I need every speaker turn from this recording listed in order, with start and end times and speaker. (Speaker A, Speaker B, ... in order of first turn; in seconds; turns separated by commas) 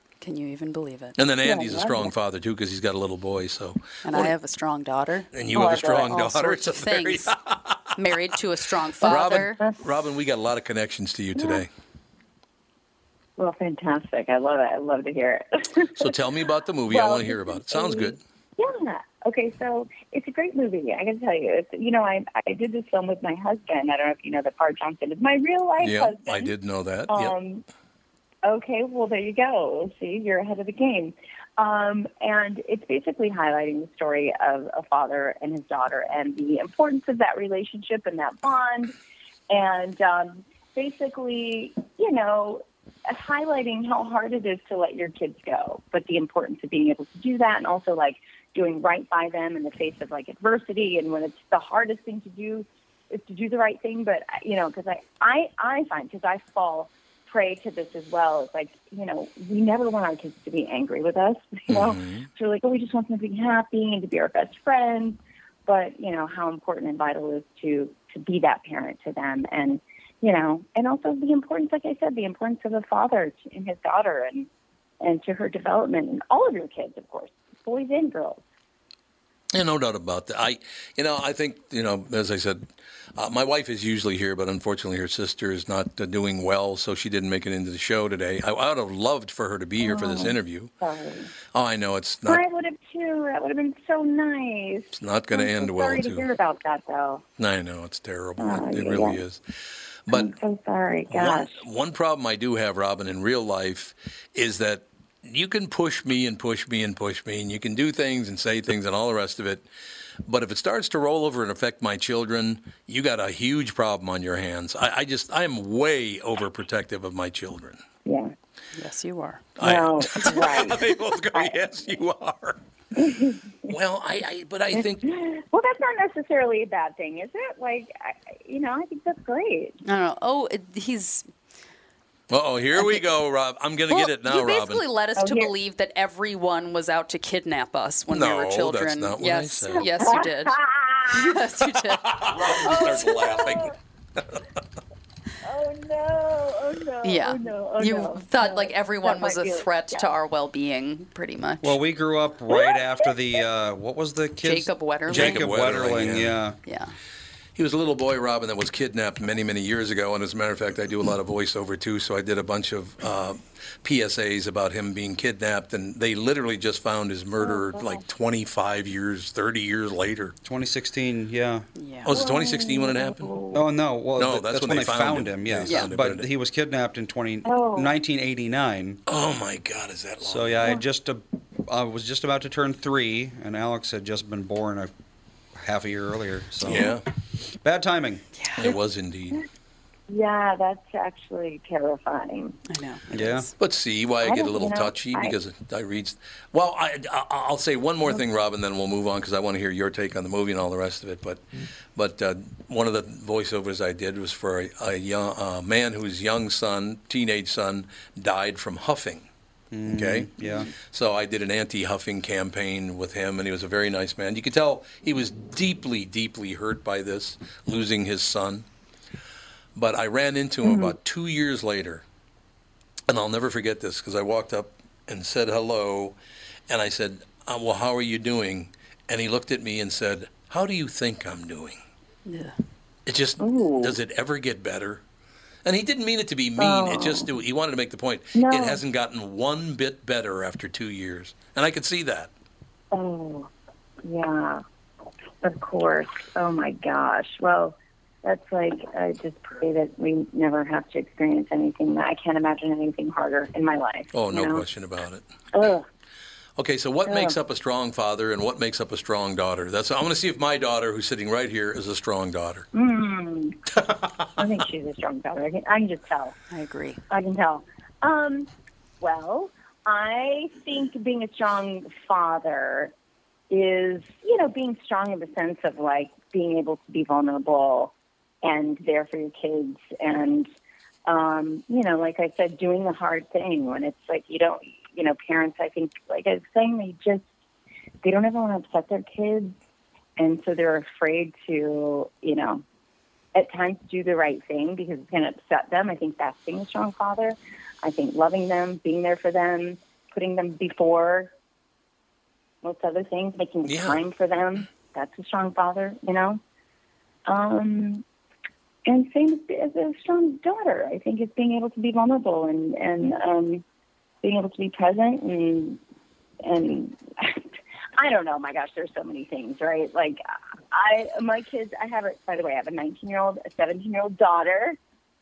Speaker A: 0.2-1.2, Speaker B: 1.2-4.3, Speaker C: 1.4-2.1, Speaker A: 4.0-5.3, Speaker B: 5.3-7.9, Speaker C: 5.5-6.1, Speaker A: 5.8-7.3, Speaker A: 8.0-9.6, Speaker B: 9.0-11.7, Speaker C: 9.2-9.7, Speaker C: 11.3-11.6, Speaker C: 13.4-16.2, Speaker B: 15.9-18.2, Speaker C: 16.9-26.5, Speaker B: 25.8-27.3, Speaker C: 27.1-27.6, Speaker C: 28.4-38.9, Speaker C: 39.5-74.5, Speaker B: 61.7-62.2, Speaker C: 75.0-78.4, Speaker B: 79.5-82.6, Speaker B: 83.2-90.7, Speaker C: 89.8-91.3, Speaker B: 91.5-92.4, Speaker C: 92.2-97.2, Speaker B: 94.9-96.3, Speaker B: 97.4-99.4, Speaker C: 98.4-99.2, Speaker B: 100.1-100.3, Speaker C: 100.1-101.6, Speaker B: 101.1-109.7, Speaker B: 110.2-117.8, Speaker C: 118.0-118.3, Speaker A: 118.7-119.4, Speaker B: 119.6-122.6, Speaker C: 119.6-121.5, Speaker C: 123.0-123.7, Speaker B: 123.7-125.1, Speaker C: 124.7-129.8, Speaker A: 129.8-131.3, Speaker B: 132.3-134.8, Speaker A: 133.9-142.2, Speaker C: 135.2-135.5, Speaker B: 138.1-139.9, Speaker C: 139.8-141.2, Speaker B: 141.9-144.4, Speaker C: 142.4-143.7, Speaker C: 145.4-150.1, Speaker A: 147.0-151.8, Speaker D: 151.6-156.6, Speaker C: 152.5-153.1, Speaker A: 154.4-155.4, Speaker B: 155.1-156.3, Speaker A: 156.7-156.9, Speaker B: 157.6-170.3, Speaker C: 167.4-168.0, Speaker D: 170.4-171.7, Speaker A: 171.8-172.1, Speaker B: 172.1-173.3, Speaker C: 172.1-173.6, Speaker D: 173.5-179.0, Speaker B: 174.2-176.3, Speaker A: 175.7-175.9, Speaker C: 177.4-177.9, Speaker B: 179.1-180.7, Speaker D: 180.2-184.9, Speaker D: 185.6-186.9, Speaker B: 186.6-187.0, Speaker D: 187.6-188.2, Speaker A: 188.3-188.7, Speaker B: 188.6-189.4, Speaker C: 190.1-192.6, Speaker A: 192.7-193.5, Speaker D: 193.1-193.5, Speaker B: 193.6-201.4, Speaker C: 194.2-195.3, Speaker B: 201.9-209.3, Speaker D: 209.7-210.7, Speaker B: 209.9-218.6, Speaker B: 219.8-222.0, Speaker C: 220.6-220.9, Speaker B: 223.1-226.2, Speaker B: 226.7-231.8, Speaker A: 232.2-232.6, Speaker B: 233.1-235.0, Speaker C: 233.4-234.0, Speaker B: 235.6-242.3, Speaker C: 236.6-237.3, Speaker C: 238.3-238.8, Speaker C: 242.9-243.5, Speaker C: 244.0-244.6, Speaker C: 245.4-254.6, Speaker B: 254.1-255.2, Speaker C: 255.5-255.8, Speaker B: 256.6-262.7, Speaker C: 257.0-257.4, Speaker C: 262.7-263.6, Speaker C: 264.4-266.3, Speaker A: 266.5-267.0, Speaker C: 267.1-268.5, Speaker C: 269.0-272.9, Speaker C: 273.5-280.5, Speaker C: 281.1-287.2, Speaker C: 288.0-289.6, Speaker C: 290.2-292.6, Speaker C: 293.3-301.3, Speaker C: 302.6-306.4, Speaker B: 303.6-304.0, Speaker C: 307.2-308.0, Speaker C: 308.9-313.6, Speaker C: 314.2-315.8, Speaker C: 316.4-317.4, Speaker C: 318.0-324.8